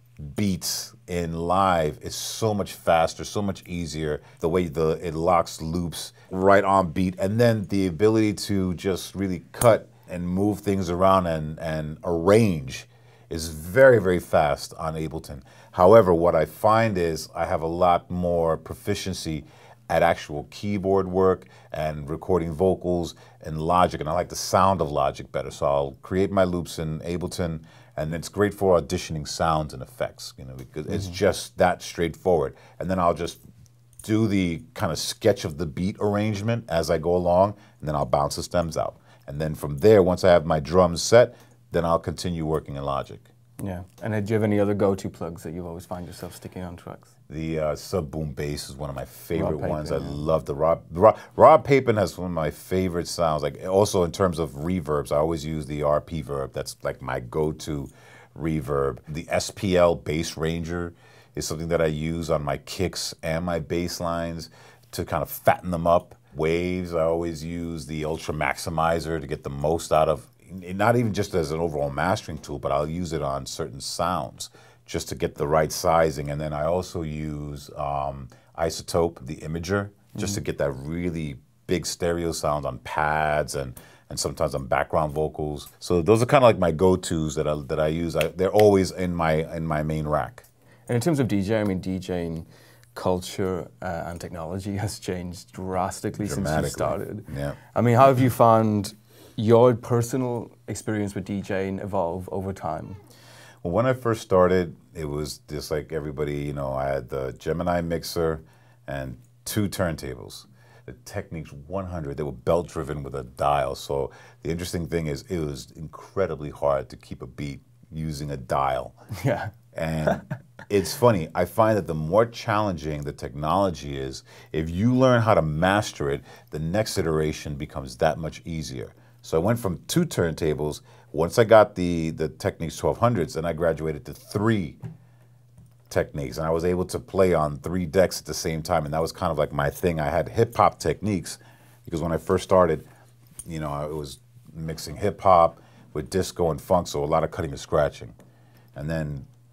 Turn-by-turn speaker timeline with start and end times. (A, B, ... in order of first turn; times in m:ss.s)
0:00.3-0:33.4 A
0:34.0-0:43.3 A
0:43.6-0:47.1 B
0:47.3-1:30.5 A
0:49.3-0:50.2 B
1:30.9-1:43.0 B
1:36.2-1:37.6 A
1:43.6-1:59.0 A
1:59.2-1:59.5 B
1:59.7-2:14.8 A
2:00.1-2:00.3 B
2:15.9-2:22.9 A
2:23.5-2:28.2 A
2:28.8-2:29.3 A